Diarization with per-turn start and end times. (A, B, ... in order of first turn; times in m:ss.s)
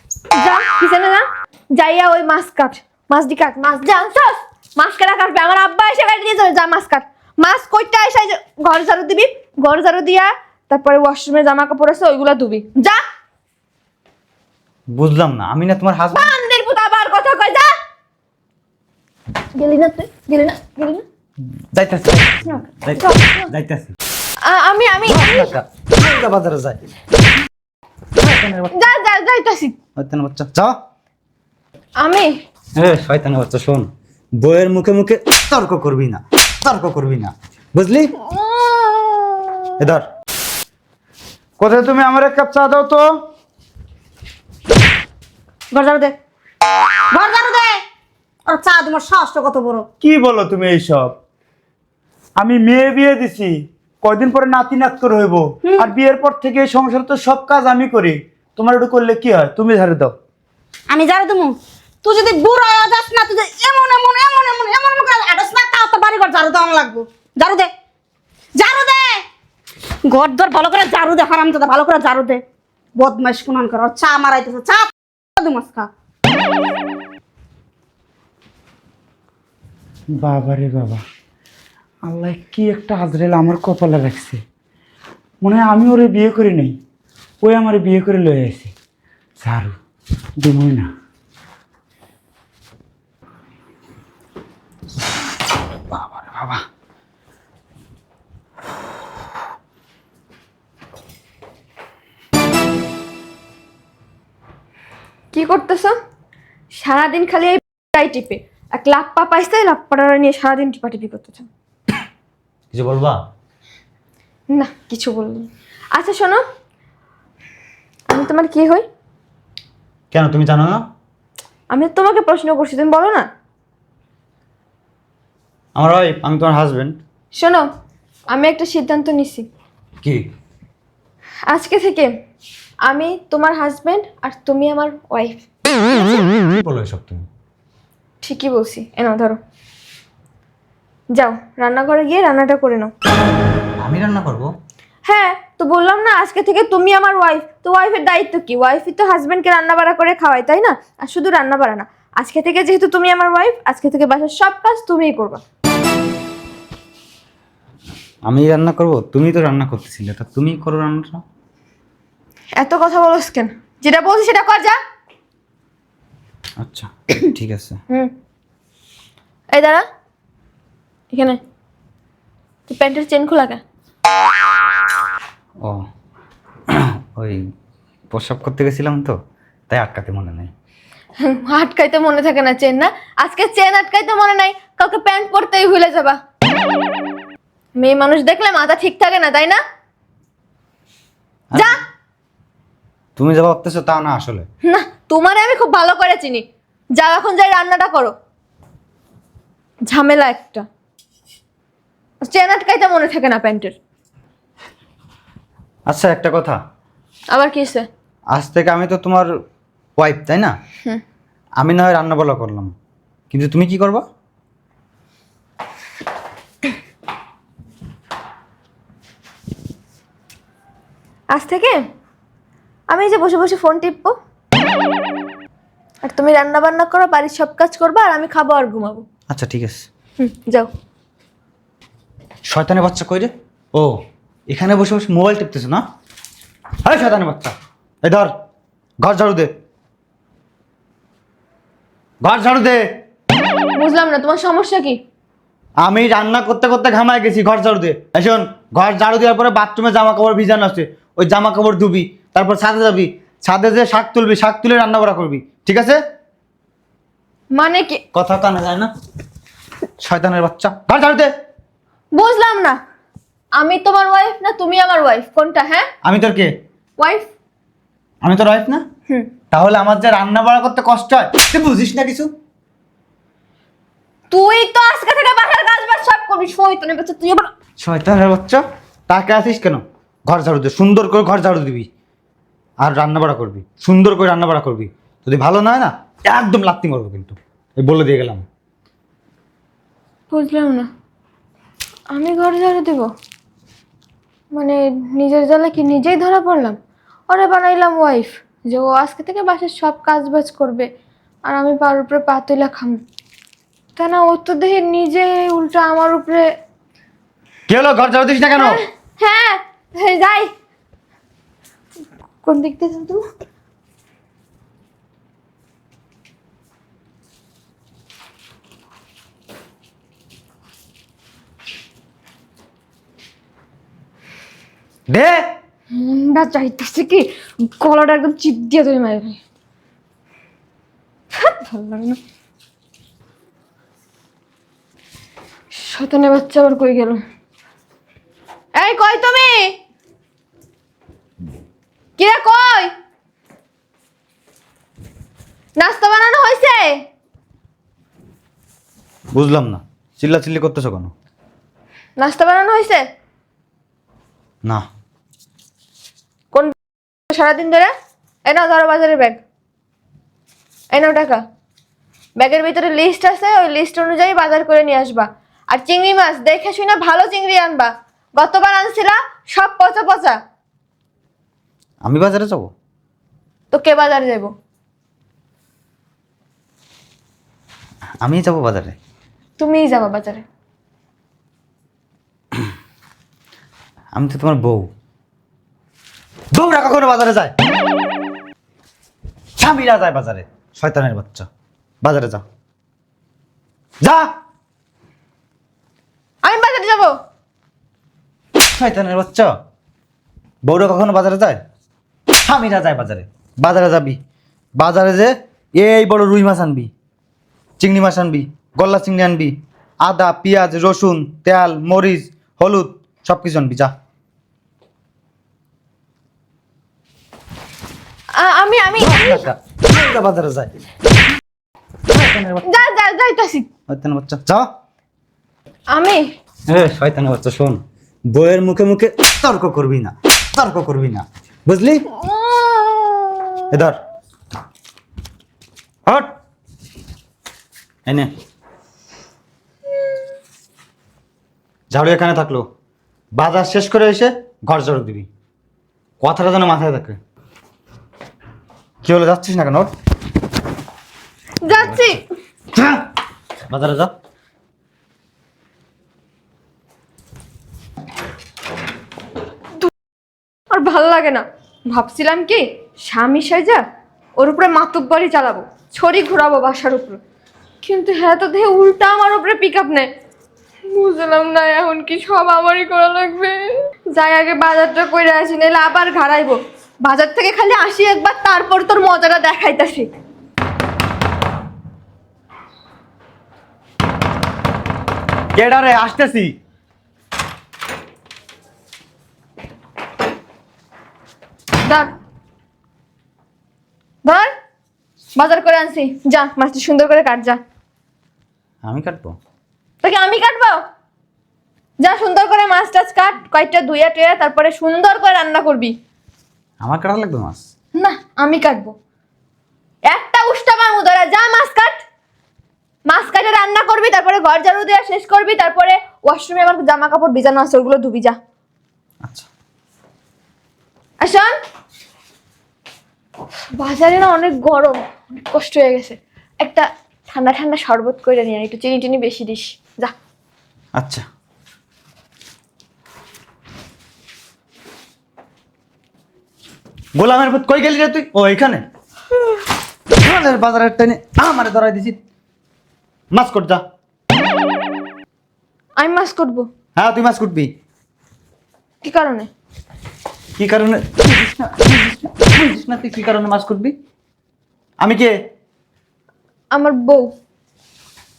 0:00.3-0:13.0 A
0:14.9-0:16.3 B
0:16.1-0:17.7 A
0:19.6-0:21.0 A
0:21.7-0:23.9 B
0:22.5-0:23.5 A
0:24.4-0:25.5 A
0:25.0-0:26.8 B
0:28.2-0:28.9 B
0:28.7-0:29.7 A
0:30.0-0:30.8 B
0:32.0-0:32.4 A
0:32.8-0:38.2 B
0:38.2-0:39.7 A
0:39.8-0:40.1 B
0:41.6-0:42.8 C
0:41.6-0:43.0 B
0:45.7-0:46.2 D
0:47.1-0:47.8 D
0:48.5-0:49.9 D
0:50.0-0:51.2 C
0:52.4-1:00.1 C
0:55.6-0:55.9 D
1:00.9-1:07.7 D
1:08.6-1:09.2 D
1:10.0-1:12.4 D
1:13.0-1:15.9 D
1:20.1-1:21.0 C
1:22.0-1:24.4 C
1:25.4-1:26.8 C
1:27.4-1:28.7 C
1:29.4-1:29.7 C
1:30.4-1:30.9 C
1:35.9-1:36.6 B
1:45.3-1:45.9 A
1:46.7-1:51.5 A
1:52.7-1:53.2 B
1:54.5-1:56.4 A
1:58.1-1:58.8 A
2:00.1-2:00.8 B
2:01.7-2:03.3 A
2:05.8-2:07.0 B
2:07.3-2:07.7 A
2:08.3-2:09.5 A
2:11.5-2:12.1 A
2:12.8-2:16.2 A
2:16.2-2:17.2 B
2:18.2-2:19.4 A
2:21.1-2:22.9 A
2:23.8-2:24.5 B
2:25.1-2:35.4 A
2:38.3-2:41.2 B
2:42.6-2:44.8 A
2:46.6-2:47.8 B
2:49.5-2:49.8 A
2:51.1-2:51.4 A
2:52.7-2:53.6 A
2:56.7-2:57.4 B
2:58.1-2:59.2 B
2:59.7-3:00.5 B
3:01.2-3:06.2 A
3:07.8-3:09.6 A
3:13.2-3:14.4 B
3:14.6-3:16.4 A
3:17.0-3:18.1 A
3:19.9-3:20.7 A
3:22.2-3:23.8 A
3:25.9-3:26.6 B
3:27.3-3:27.9 A
3:28.3-3:29.3 B
3:30.0-3:30.5 B
3:31.6-3:32.7 B
3:33.3-3:34.0 B
3:41.3-3:41.8 A
3:42.9-3:44.2 A
3:46.0-3:49.0 A
3:49.3-3:49.9 B
3:50.2-3:50.7 A
3:52.4-3:53.9 B
3:54.5-3:55.8 B
3:56.8-3:58.3 B
3:59.0-3:59.5 B
4:02.2-4:02.8 B
4:03.8-4:05.0 A
4:05.8-4:16.0 B
4:17.5-4:18.0 A
4:18.1-4:18.9 B
4:20.0-4:21.3 B
4:22.1-4:22.8 A
4:23.6-4:25.9 A
4:26.0-4:26.5 B
4:27.0-4:27.3 A
4:28.2-4:28.8 B
4:29.5-4:32.3 B
4:34.3-4:37.5 A
4:37.8-4:41.9 B
4:42.8-4:48.4 B
4:50.3-4:50.9 A
4:52.1-4:53.1 A
4:54.5-4:56.8 A
4:57.3-5:00.9 A
5:01.5-5:03.0 A
5:04.0-5:06.4 A
5:07.7-5:08.8 B
5:08.6-5:10.5 A
5:12.4-5:13.2 A
5:25.1-5:25.5 B
5:25.9-5:29.4 A
5:31.3-5:32.2 A
5:35.7-5:37.2 A
5:38.8-5:39.8 A
5:42.2-5:42.9 A
5:45.8-5:47.0 A
5:49.3-5:51.1 B
5:52.2-5:53.0 A
5:57.3-5:57.9 A
5:58.4-5:59.4 A
6:00.9-6:01.4 A
6:02.4-6:10.4 A
6:12.0-6:12.7 B
6:13.7-6:14.5 A
6:18.2-6:19.0 B
6:19.6-6:20.4 A
6:24.1-6:24.9 B
6:26.5-6:27.5 B
6:29.6-6:31.5 B
6:32.0-6:32.4 B
6:34.0-6:34.3 B
6:36.4-6:37.2 A
6:38.7-6:39.5 B
6:40.6-6:41.6 B
6:42.4-6:44.2 B
6:44.8-6:46.9 B
6:47.8-6:53.9 B
6:58.3-6:59.4 A
6:59.0-7:00.7 B
7:02.1-7:02.8 B
7:02.6-7:03.6 A
7:03.9-7:04.7 B
7:05.9-7:06.3 A
7:06.7-7:12.1 B
7:12.1-7:13.6 A
7:13.7-7:14.0 B
7:16.1-7:16.3 B
7:18.1-7:18.3 B
7:21.9-7:22.7 B
7:23.3-7:25.3 B
7:26.2-7:27.2 B
7:29.0-7:29.9 B
7:31.6-7:32.2 A
7:31.7-7:32.1 B
7:32.7-7:33.0 B
7:33.7-7:34.1 B
7:40.7-7:43.8 A
7:44.4-7:47.2 A
7:47.8-7:50.1 A
7:50.9-8:00.1 A
8:05.6-8:06.5 B
8:11.8-8:12.1 A
8:15.4-8:17.6 A
8:18.8-8:19.4 B
8:20.0-8:20.8 A
8:22.0-8:25.9 A
8:26.8-8:27.6 B
8:28.0-8:28.9 A
8:30.1-8:32.0 A
8:33.1-8:38.4 A
8:41.2-8:41.5 A
8:43.8-8:50.1 A
8:51.0-8:51.2 B
8:57.2-8:58.8 B
9:00.2-9:02.2 B
9:03.3-9:03.8 B
9:06.0-9:06.7 A
9:07.0-9:07.7 B
9:09.0-9:09.5 A
9:10.6-9:13.9 B
9:15.0-9:15.3 B
9:16.7-9:17.3 A